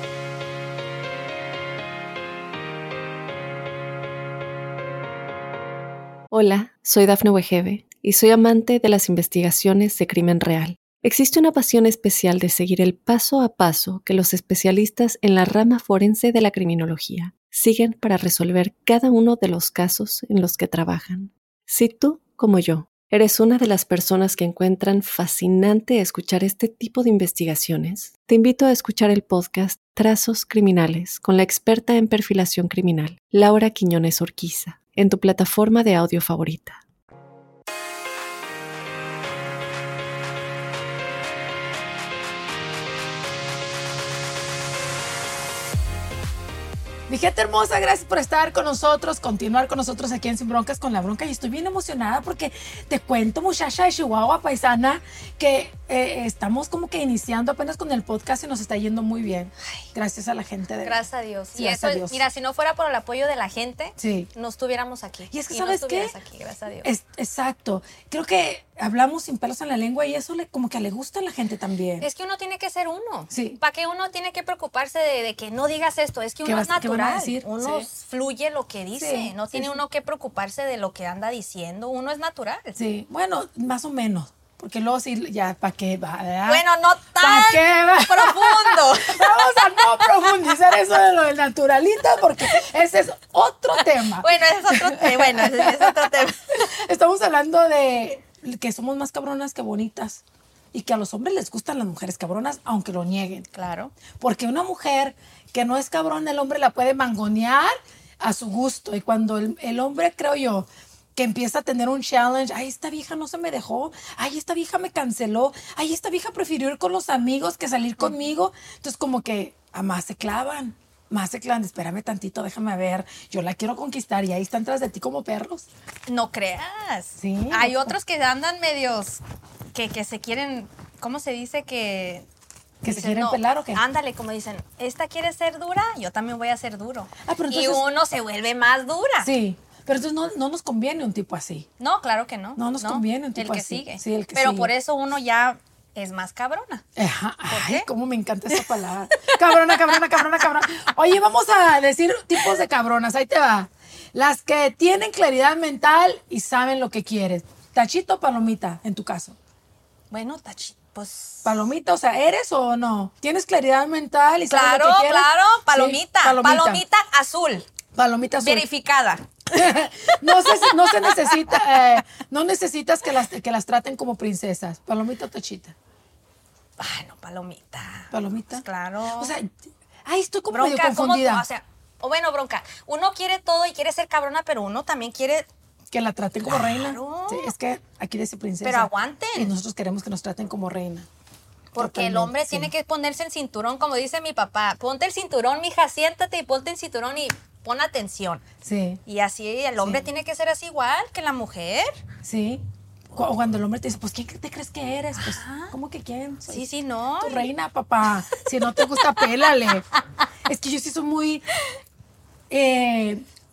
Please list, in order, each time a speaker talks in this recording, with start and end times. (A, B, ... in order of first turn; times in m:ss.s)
0:06.3-0:36.8 A
0:47.1-1:01.0 B
1:00.8-1:06.9 C
1:01.6-1:02.2 B
1:04.0-1:04.3 B
1:05.3-1:06.2 B
1:06.8-1:12.1 B
1:12.0-1:22.8 C
1:13.3-1:13.6 B
1:16.4-1:17.9 B
1:19.0-1:19.8 B
1:22.8-1:26.6 B
1:26.4-1:30.4 C
1:27.2-1:40.2 B
1:34.1-1:36.7 C
1:40.7-1:43.5 B
1:43.5-1:43.9 C
1:44.2-2:05.7 B
2:06.1-2:09.2 C
2:07.2-2:07.9 B
2:09.7-2:12.2 C
2:12.8-2:13.8 B
2:12.8-2:19.3 C
2:17.2-2:17.8 B
2:19.2-2:21.7 B
2:21.8-2:26.8 C
2:22.6-2:24.7 B
2:27.0-2:39.4 B
2:27.5-2:27.9 C
2:28.5-2:30.4 C
2:40.1-2:41.6 C
2:41.4-2:46.8 B
2:44.5-2:47.6 C
2:47.9-2:48.6 B
2:48.4-2:51.8 C
2:49.5-2:55.7 B
2:56.8-2:59.3 C
2:58.1-2:58.6 B
2:59.2-2:59.5 B
3:00.0-3:01.4 B
3:00.5-3:05.5 C
3:05.9-3:11.1 B
3:06.5-3:07.5 C
3:08.6-3:09.5 C
3:11.7-3:18.4 C
3:11.8-3:12.7 B
3:18.6-3:19.0 B
3:19.1-3:22.0 C
3:19.8-3:20.1 B
3:22.2-3:29.8 B
3:25.2-3:25.7 C
3:26.5-3:27.5 C
3:28.8-3:29.5 C
3:30.4-3:31.4 B
3:32.5-3:33.2 B